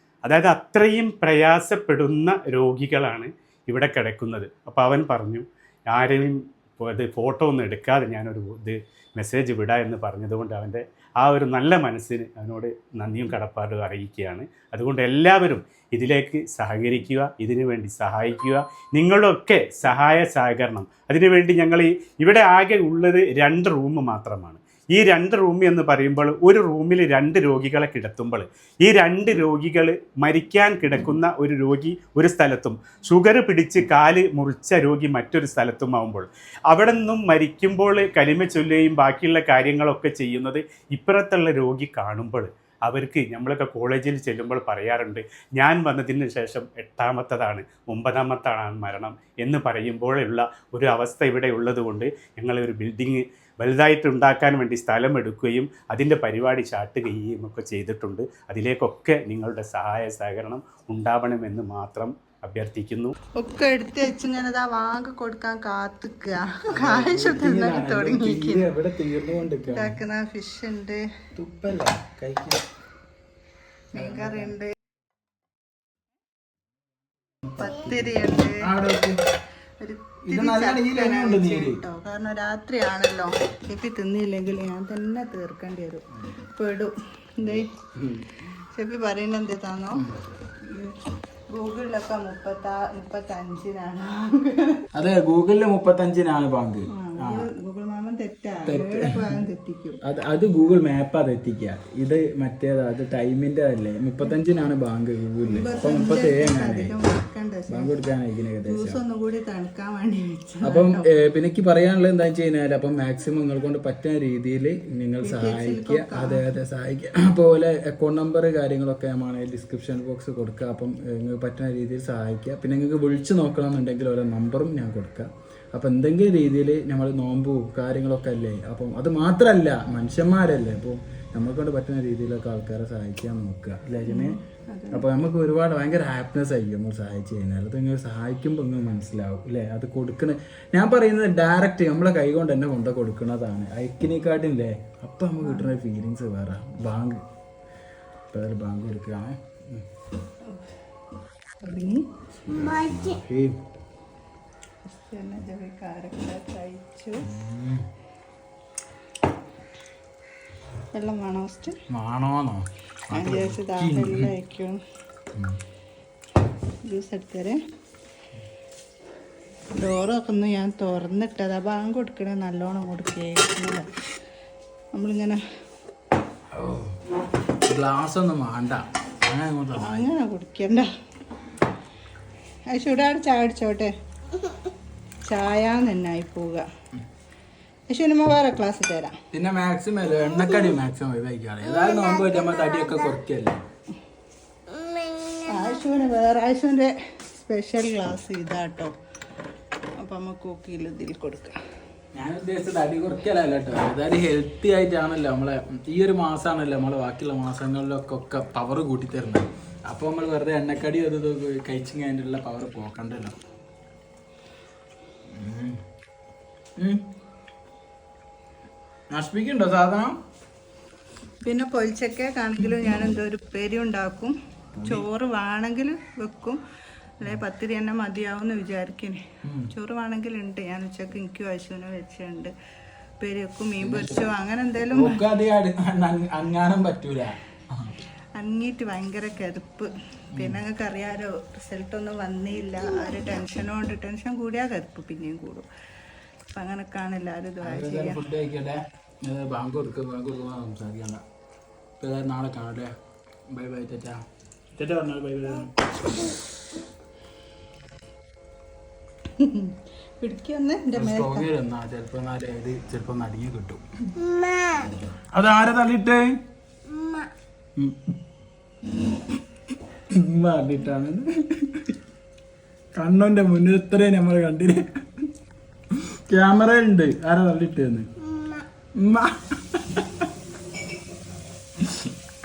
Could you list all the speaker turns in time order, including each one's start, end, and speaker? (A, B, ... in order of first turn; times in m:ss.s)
0:00.2-1:03.1 A
1:03.4-1:08.7 B
1:06.7-1:10.0 C
1:09.7-1:11.0 B
1:11.4-1:12.6 C
1:13.9-1:14.5 C
1:14.0-1:14.7 B
1:17.6-1:18.6 B
1:17.6-1:19.2 C
1:19.8-1:27.7 B
1:20.2-1:21.8 C
1:27.4-1:28.3 C
1:28.6-1:30.0 B
1:30.0-1:30.2 C
1:30.6-1:31.0 B
1:31.5-1:34.8 B
1:35.0-1:37.5 C
1:36.9-1:40.0 B
1:38.6-1:39.4 C
1:40.0-1:46.9 C
1:45.4-1:48.0 B
1:47.7-1:49.0 C
1:48.6-1:51.1 B
1:50.6-2:14.4 C
1:55.2-1:56.4 B
2:14.0-2:15.0 B
2:14.9-2:27.2 C
2:25.4-2:25.7 B
2:28.3-2:29.8 C
2:31.6-2:32.0 B
2:32.5-2:33.6 C
2:32.6-2:33.0 B
2:34.9-2:37.2 B
2:37.2-2:37.8 C
2:40.9-2:41.8 B
2:41.9-2:44.3 C
2:43.1-2:44.8 B
2:46.9-2:47.6 B
2:49.8-2:53.9 B
2:54.9-2:55.4 B
2:56.5-2:57.0 C
2:57.7-3:00.1 C
2:59.8-3:00.9 B
3:02.7-3:03.9 B
3:05.2-3:06.6 B
3:07.9-3:09.2 B
3:09.3-3:13.6 C
3:15.4-3:18.9 B
3:20.0-3:21.5 B
3:22.1-3:33.3 C
3:35.3-3:35.8 C
3:36.8-3:37.0 C
3:39.1-3:40.2 C
3:41.4-3:44.3 B
3:44.7-3:45.0 C
3:44.8-3:46.6 B
3:47.2-3:49.2 B
3:49.4-3:49.7 C
3:49.7-3:52.5 B
3:53.2-3:55.2 B
3:53.8-3:54.2 C
3:54.9-3:57.9 C
3:58.4-4:05.6 B
4:00.3-4:00.6 C
4:06.6-4:08.2 B
4:07.6-4:11.2 C
4:12.0-4:12.9 C
4:13.5-4:14.2 C
4:14.7-4:15.7 C
4:19.4-4:21.5 B
4:20.9-4:23.8 C
4:25.3-4:26.3 C
4:27.8-4:28.1 C
4:30.2-4:31.9 C
4:33.0-4:34.8 C
4:36.3-4:38.1 C
4:39.0-4:40.2 C